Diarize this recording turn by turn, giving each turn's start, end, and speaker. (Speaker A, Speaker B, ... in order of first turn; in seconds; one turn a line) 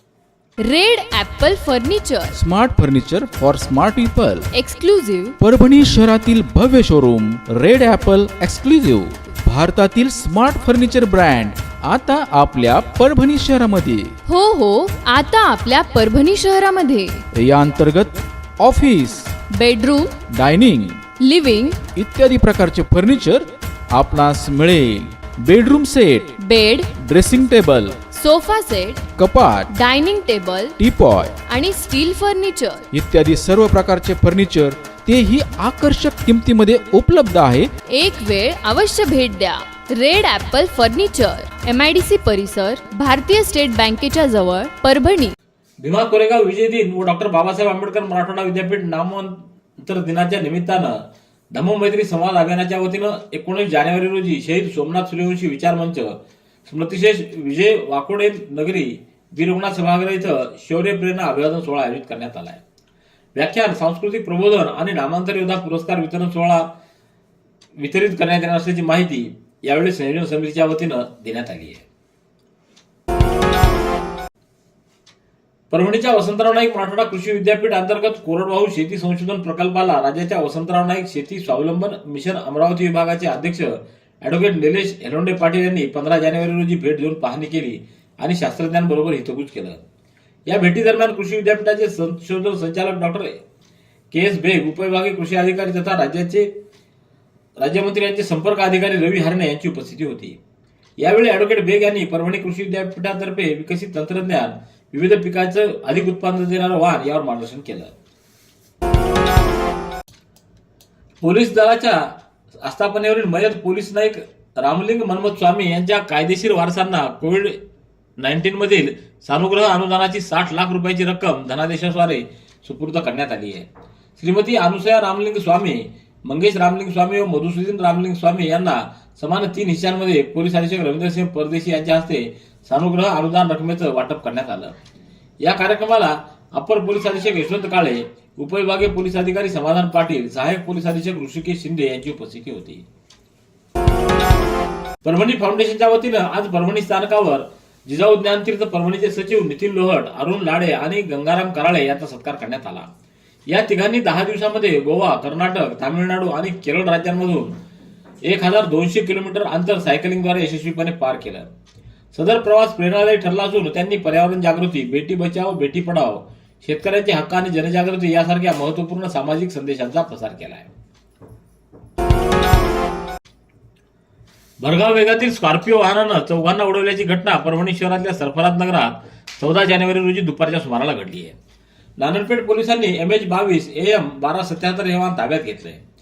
Speaker A: 0.7-2.4
Speaker B: 2.3-4.5
Speaker A: 4.5-5.3
Speaker B: 5.4-14.1
Speaker A: 14.3-17.2
Speaker B: 17.4-19.3
Speaker A: 19.6-20.1
Speaker B: 20.3-21.0
Speaker A: 21.2-21.8
Speaker B: 21.9-26.3
Speaker A: 26.4-26.9
Speaker B: 26.9-28.0
Speaker A: 28.1-29.1
Speaker B: 29.2-29.7
Speaker A: 29.7-30.7
Speaker B: 30.8-31.3
Speaker A: 31.5-32.8
Speaker B: 32.9-37.7
Speaker A: 38.0-45.4
Speaker C: 45.8-62.6
Speaker C: 63.4-66.7
Speaker C: 67.8-71.8
Speaker C: 75.7-89.8
Speaker C: 90.5-93.4
Speaker C: 94.1-96.5
Speaker C: 97.6-100.4
Speaker C: 101.0-107.9
Speaker C: 111.2-112.1
Speaker C: 112.6-117.6
Speaker C: 118.2-134.8
Speaker C: 135.4-142.8
Speaker C: 145.0-152.9
Speaker C: 153.5-157.6
Speaker C: 158.2-161.5
Speaker C: 162.1-170.7
Speaker C: 174.6-181.3
Speaker C: 182.0-185.8